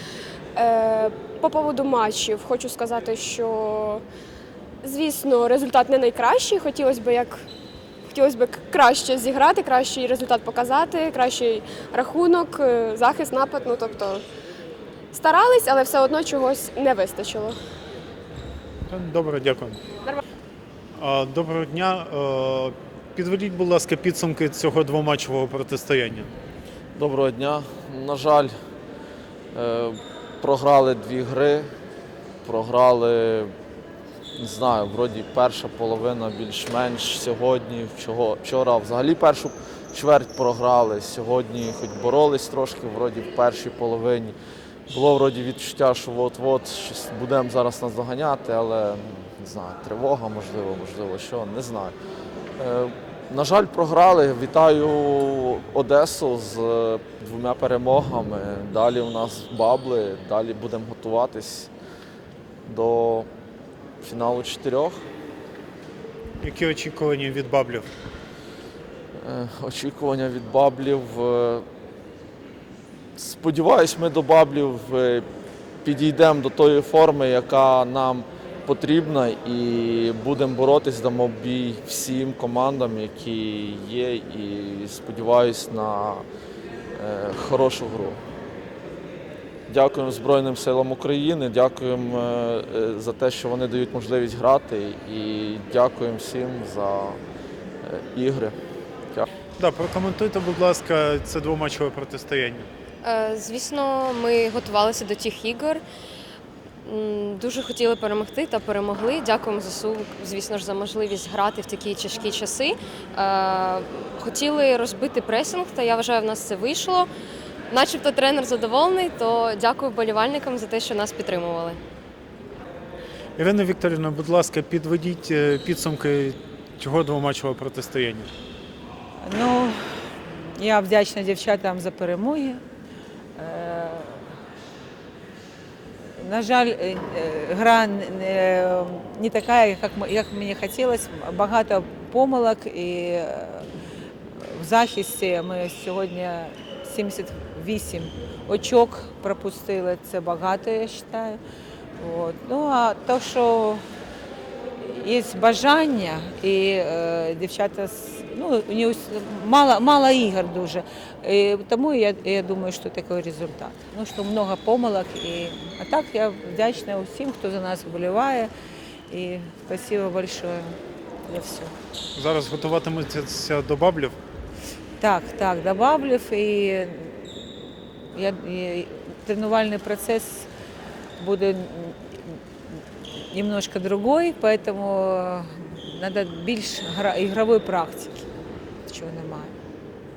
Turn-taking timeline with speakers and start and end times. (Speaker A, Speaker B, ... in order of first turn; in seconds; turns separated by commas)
Speaker A: 0.6-4.0, Speaker A: 4.8-7.4, Speaker A: 8.1-14.2, Speaker A: 15.1-17.6, Speaker B: 18.9-19.8, Speaker B: 21.0-26.3, Speaker C: 26.9-28.5, Speaker C: 29.5-31.7, Speaker C: 32.5-33.5, Speaker C: 34.4-44.3, Speaker C: 44.9-52.0, Speaker C: 52.6-61.7, Speaker C: 62.6-63.3, Speaker C: 64.0-65.0, Speaker B: 66.4-67.9, Speaker C: 69.2-71.7, Speaker C: 73.2-75.2, Speaker C: 75.8-86.2, Speaker C: 86.9-88.2, Speaker C: 89.7-97.2, Speaker C: 97.8-98.6, Speaker B: 99.6-102.7, Speaker D: 103.0-105.8, Speaker D: 106.8-117.1, Speaker D: 117.7-121.8, Speaker B: 123.4-128.3, Speaker E: 129.2-132.6, Speaker E: 133.3-134.2, Speaker E: 136.2-143.7, Speaker E: 144.4-151.4, Speaker E: 152.0-153.8, Speaker E: 154.8-168.5, Speaker E: 169.1-171.8, Speaker B: 172.2-174.2, Speaker E: 175.0-177.4, Speaker E: 178.1-180.5, Speaker E: 181.2-182.4, Speaker E: 183.1-188.3, Speaker E: 188.8-189.5